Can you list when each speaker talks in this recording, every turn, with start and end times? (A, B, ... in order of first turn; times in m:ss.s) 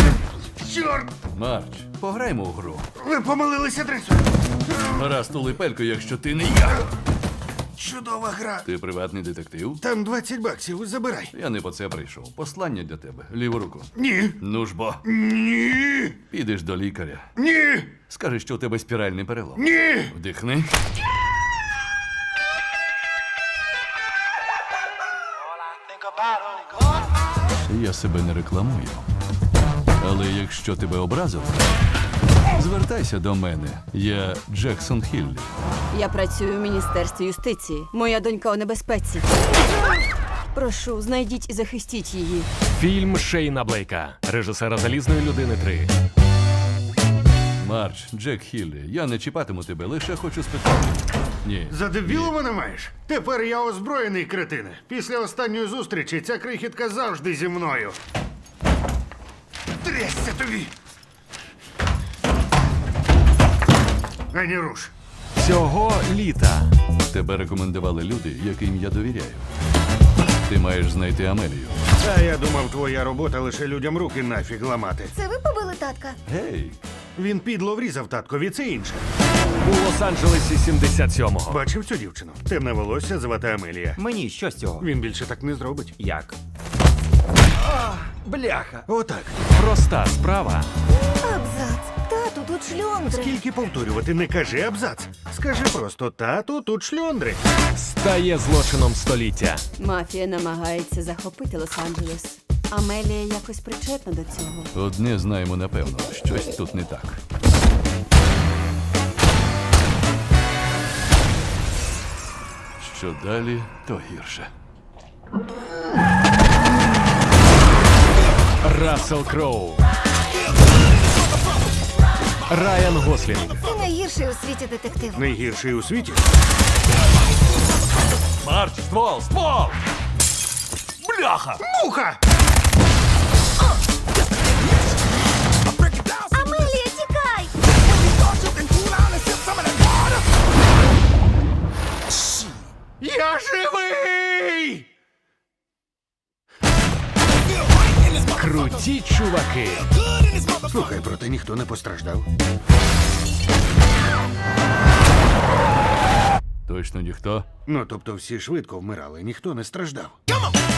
0:00.6-0:01.1 A
0:01.3-0:02.9 B
0:03.0-0:04.3 A
0:04.8-0:06.9 B
0:07.8-0:08.7 A
0:08.6-0:09.8 B
0:09.8-0:11.3 A
0:11.3-0:15.0 B
0:14.0-0:14.4 A
0:15.1-0:16.2 A
0:16.3-0:17.3 B
0:17.4-0:17.9 A
0:18.1-0:20.7 B
0:19.6-0:20.2 A
0:27.7-0:29.0 B
0:30.0-0:31.7 B
0:32.5-0:35.5 B
0:35.9-0:39.3 C
0:40.5-0:42.5 C
0:42.7-0:45.9 D
0:47.6-0:52.3 B
0:51.7-0:58.0 A
0:59.8-1:00.7 A
1:04.3-1:04.9 A
1:05.4-1:06.8 D
1:07.1-1:09.5 B
1:10.5-1:11.8 B
1:12.0-1:15.1 A
1:15.1-1:16.2 E
1:16.3-1:16.8 B
1:17.2-1:19.1 A
1:19.6-1:21.6 D
1:21.5-1:24.0 A
1:24.0-1:24.9 F
1:24.8-1:26.0 A
1:26.0-1:26.4 F
1:27.8-1:28.9 F
1:28.9-1:29.4 A
1:29.5-1:30.7 D
1:31.1-1:33.3 E
1:33.1-1:37.4 A
1:37.7-1:39.6 D
1:39.8-1:44.7 C
1:44.7-1:47.2 B
1:52.8-1:54.5 B
1:58.6-1:59.9 D
2:02.5-2:03.7 D
2:03.6-2:05.2 E
2:05.1-2:06.2 A
2:08.4-2:09.8 B
2:11.0-2:11.6 B
2:11.6-2:12.2 A
2:16.2-2:17.5 E
2:23.0-2:24.9 A
2:28.2-2:30.1 D
2:30.6-2:32.3 A
2:36.7-2:37.5 B
2:37.7-2:40.1 A